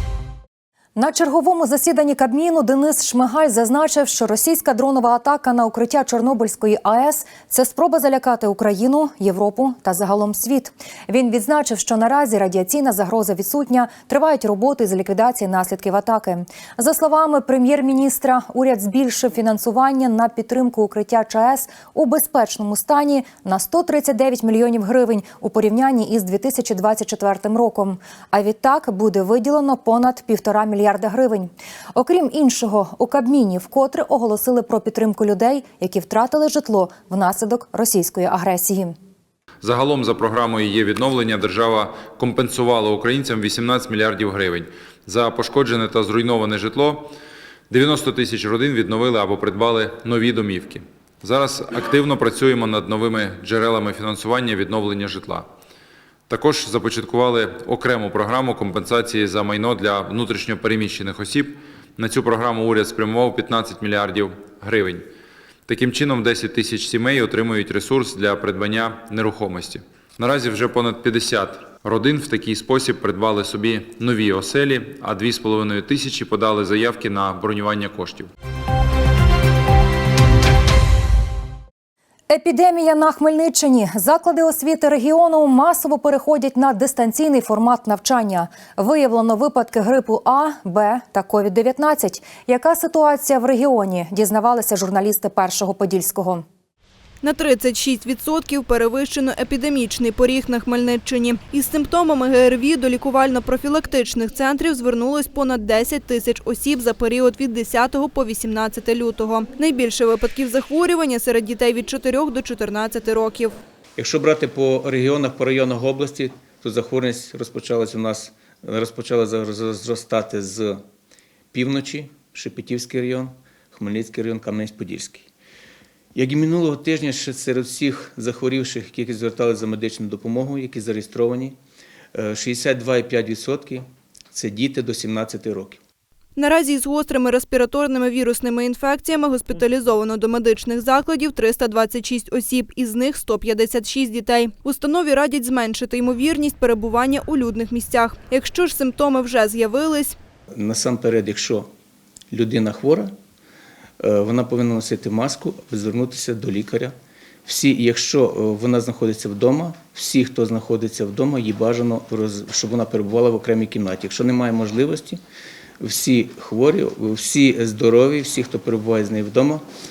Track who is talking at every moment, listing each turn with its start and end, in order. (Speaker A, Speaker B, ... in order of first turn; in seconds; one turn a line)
Speaker A: 0.9-39.0
Speaker B: 39.6-47.1
Speaker B: 47.7-55.5
Speaker B: 56.3-65.0
Speaker B: 65.7-78.3
Speaker A: 82.3-96.4
Speaker C: 97.2-113.5
Speaker D: 114.0-120.8
Speaker D: 121.5-125.3
Speaker D: 126.1-131.6
Speaker D: 132.1-135.8
Speaker C: 136.3-150.2
Speaker D: 150.5-151.7
Speaker D: 152.3-153.1
Speaker D: 154.0-156.9
Speaker D: 157.4-165.2
Speaker D: 165.8-169.6